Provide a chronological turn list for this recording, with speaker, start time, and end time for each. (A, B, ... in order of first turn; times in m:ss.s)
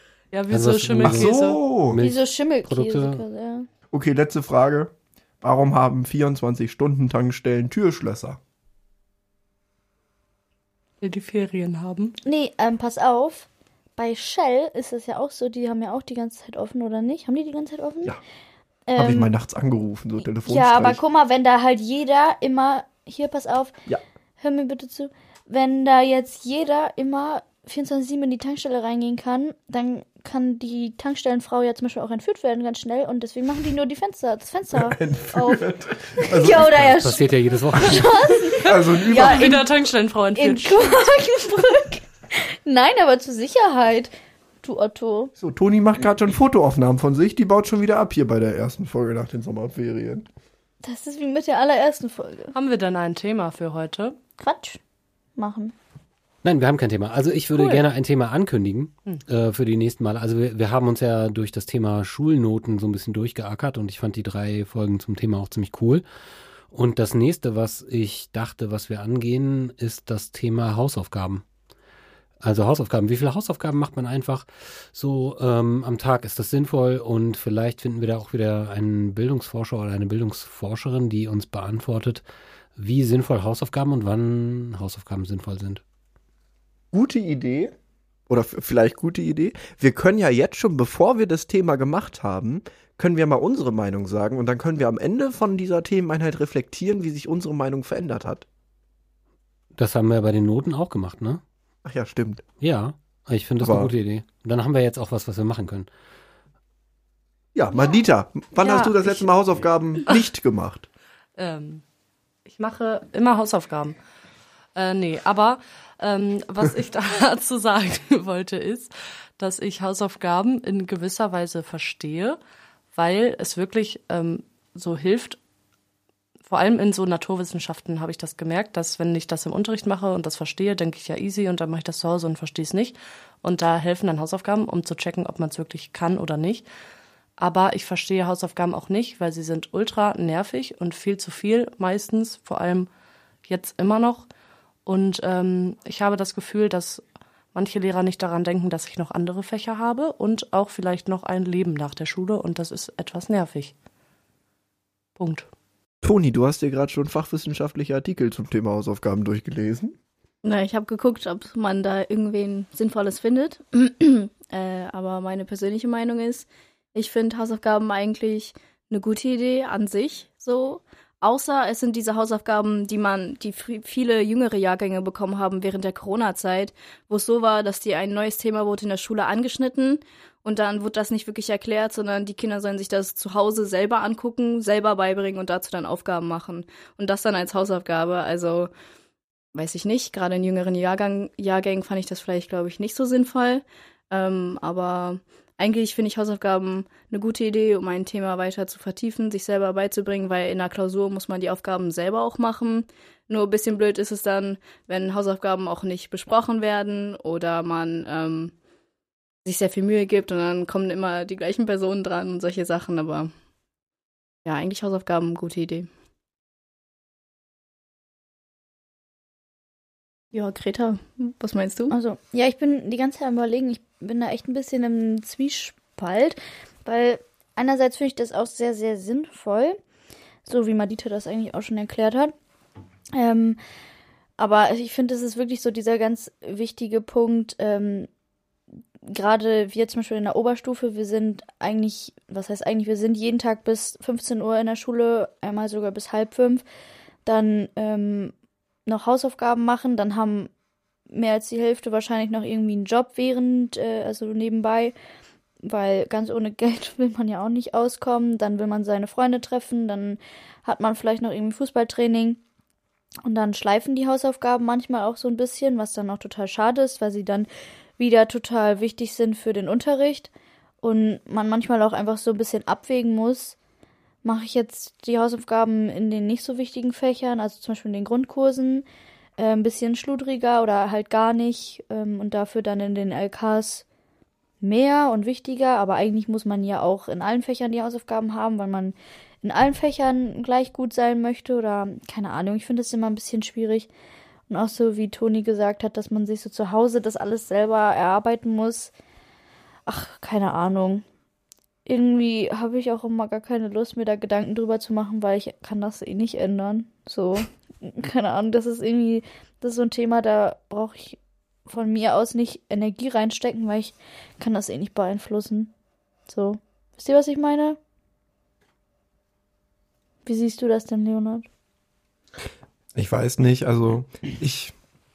0:00.3-0:01.6 A
0:00.5-0:01.3 B
0:01.0-0:02.0 C
0:01.9-0:03.2 B
0:02.0-0:03.7 D
0:03.9-0:08.4 C
0:11.0-0:12.2 A
0:12.2-0:18.2 D
0:18.9-0:19.3 D
0:19.0-0:21.0 C
0:20.4-0:23.8 D
0:24.4-0:35.6 D
0:34.7-0:37.0 C
0:36.2-0:39.7 D
0:36.9-0:38.3 B
0:38.5-0:39.6 C
0:38.7-0:41.0 A
0:40.4-0:44.1 D
0:44.6-0:45.3 D
0:45.4-0:50.3 C
0:50.8-0:52.5 D
0:52.5-0:54.2 A
0:54.4-0:54.8 D
0:55.4-0:55.7 D
0:56.4-1:06.0 B
0:57.6-0:57.8 A
1:06.7-1:11.4 B
1:12.4-1:22.2 B
1:22.8-1:25.8 B
1:26.9-1:27.7 C
1:28.3-1:38.4 C
1:39.7-1:41.4 B
1:41.8-1:42.4 C
1:42.6-1:45.9 B
1:43.6-1:43.9 C
1:47.5-1:50.9 C
1:48.6-1:49.2 A
1:51.4-1:51.8 A
1:52.4-1:54.0 A
1:54.7-2:02.4 A
2:02.9-2:05.4 A
2:06.5-2:16.6 A
2:17.4-2:22.9 A
2:23.4-2:24.2 A
2:24.8-2:27.0 A
2:27.5-2:33.7 A
2:35.2-2:35.5 A
2:36.0-2:40.0 C
2:40.4-3:08.7 E
3:09.5-3:28.5 E
3:29.4-3:33.3 E
3:34.4-3:35.9 E
3:40.3-3:41.9 E
3:41.9-3:49.8 D
3:50.4-3:52.3 D
3:53.1-3:53.6 D
3:54.4-3:58.1 D
3:59.0-4:06.6 D
4:07.2-4:08.3 D
4:08.8-4:10.5 D
4:11.1-4:14.9 D
4:15.6-4:22.4 D
4:23.2-4:30.3 D
4:30.8-4:33.6 D
4:34.2-4:38.8 D
4:39.4-4:43.8 D
4:44.6-4:53.9 D
4:54.5-4:58.9 D
4:59.9-5:01.0 D
5:01.8-5:15.7 D
5:16.3-5:17.8 D
5:20.2-5:21.4 D
5:22.9-5:24.7 C